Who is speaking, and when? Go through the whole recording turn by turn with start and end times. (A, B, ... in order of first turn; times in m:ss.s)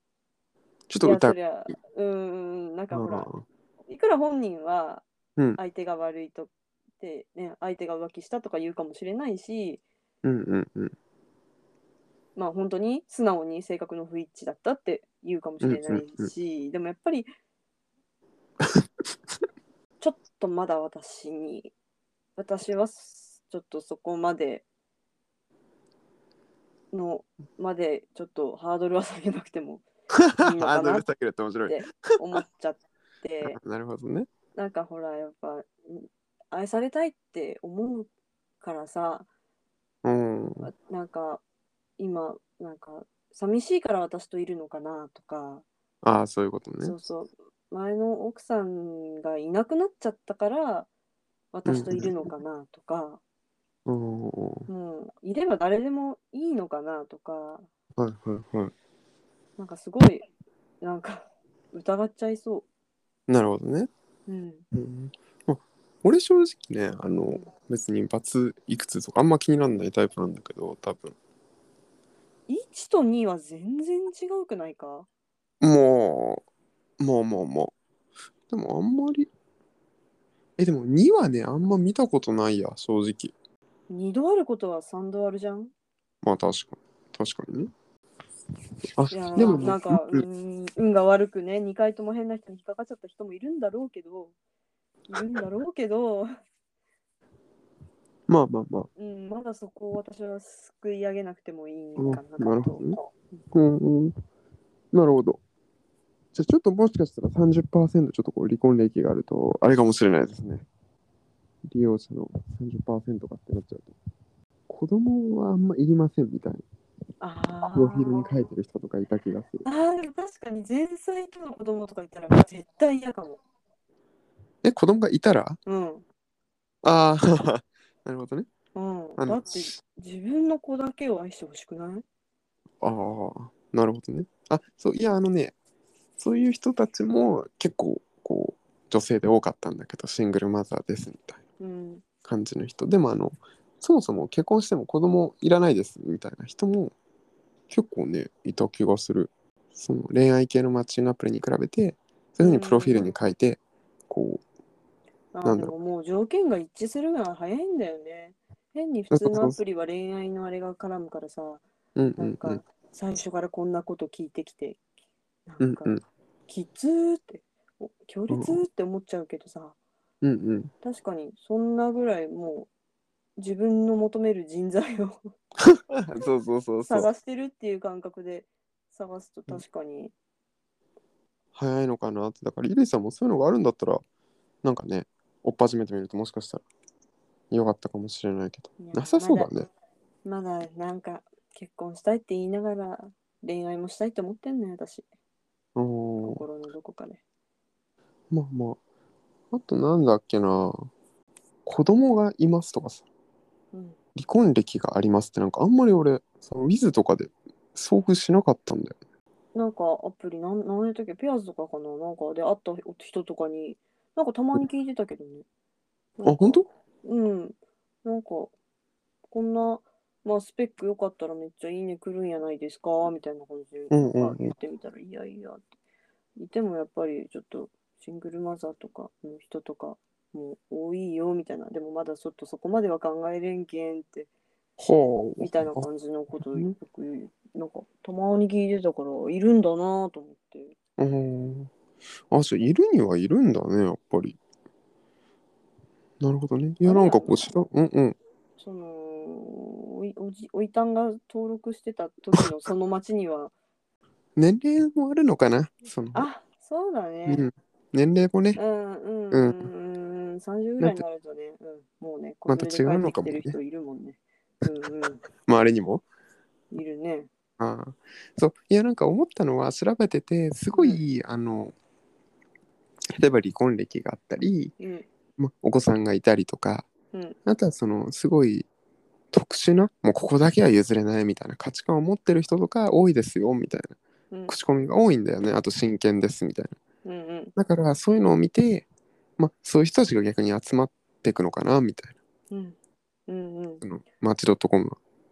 0:00.9-0:01.4 A
0:01.0-0:03.3 B
0:02.9-0:03.4 A
0:03.8-0:05.0 B
0:05.6-0:09.8 B
0:10.2-0:10.9 A
0:12.4-0:17.3 B
0:15.6-0:16.3 A
0:20.0-0:21.7 B
0:22.4-0:24.6 B
0:26.9-0:29.8 B
0:30.1-0:32.4 A
0:30.4-0:31.1 B
0:31.7-0:33.6 B
0:33.4-0:34.3 A
0:34.5-0:38.1 B
0:38.6-0:39.3 B
0:40.0-0:40.7 A
0:40.6-0:41.4 B
0:42.0-0:45.6 B
0:46.0-0:46.9 A
0:46.8-0:50.9 B
0:51.5-0:53.2 B
0:51.7-0:52.1 A
0:53.8-0:54.7 A
0:54.7-0:57.7 B
0:58.0-0:58.7 A
0:59.6-1:00.3 B
1:00.8-1:02.6 B
1:03.3-1:03.9 A
1:04.3-1:04.6 B
1:04.7-1:11.2 A
1:12.5-1:15.1 B
1:15.6-1:16.4 A
1:17.0-1:17.7 A
1:18.5-1:19.3 A
1:20.6-1:23.3 A
1:23.9-1:25.7 B
1:26.2-1:27.7 A
1:29.0-1:30.2 A
1:29.1-1:34.3 B
1:35.1-1:36.3 B
1:38.3-1:38.9 A
1:39.0-1:43.2 B
1:42.0-1:43.0 A
1:43.5-1:44.2 A
1:44.9-1:45.4 A
1:46.3-1:50.6 A
1:51.6-1:53.9 A
1:54.7-1:56.6 A
1:57.2-1:58.3 B
1:57.7-1:59.6 A
1:59.6-2:03.4 B
2:04.6-2:05.6 A
2:05.6-2:06.0 B
2:06.8-2:08.5 A
2:08.7-2:12.0 B
2:09.2-2:09.6 A
2:12.8-2:15.5 A
2:16.2-2:21.4 A
2:21.6-2:22.0 B
2:22.2-2:26.9 A
2:27.7-2:34.4 A
2:32.4-2:33.1 B
2:35.3-2:41.6 B
2:35.4-2:35.7 A
2:39.1-2:39.6 A
2:42.0-2:42.6 A
2:42.2-2:44.8 B
2:45.4-2:45.9 B
2:45.6-2:46.0 A
2:46.5-2:49.8 B
2:48.3-2:48.6 A
2:50.2-2:50.7 A
2:50.8-2:52.7 B
2:53.4-2:55.3 B
2:55.6-2:57.1 A
2:56.8-3:00.1 B
3:01.5-3:04.0 A
3:04.6-3:06.6 A
3:07.5-3:09.7 A
3:08.8-3:09.5 B
3:10.2-3:15.0 B
3:15.8-3:16.4 A
3:16.2-3:17.2 B
3:18.3-3:18.8 A
3:19.5-3:20.9 A
3:21.6-3:23.0 A
3:23.7-3:24.0 B
3:24.2-3:29.0 A
3:29.5-3:35.4 B
3:36.2-3:38.5 B
3:36.2-3:36.7 A
3:39.3-3:45.6 B
3:43.9-3:44.5 A
3:46.4-3:54.3 B
3:54.8-3:55.8 A
3:55.4-4:00.7 B
4:01.0-4:01.7 A
4:02.3-4:04.4 A
4:06.2-4:08.2 A
4:06.8-4:07.5 B
4:08.6-4:13.5 B
4:14.4-4:16.2 A
4:16.1-4:17.4 B
4:17.2-4:18.6 A
4:18.6-4:25.2 B
4:19.3-4:19.6 A
4:22.5-4:23.6 A
4:25.4-4:26.0 A
4:26.7-4:27.3 B
4:27.6-4:31.7 A
4:30.7-4:31.0 B
4:33.1-4:34.7 A
4:34.8-4:35.0 B
4:35.4-4:36.9 A
4:37.1-4:37.4 B
4:37.4-4:38.7 A
4:39.3-4:44.0 A
4:44.5-4:46.8 A
4:47.0-4:47.5 B
4:47.6-4:48.9 A
4:49.4-4:52.1 A
4:52.5-4:53.8 B
4:53.8-4:55.0 A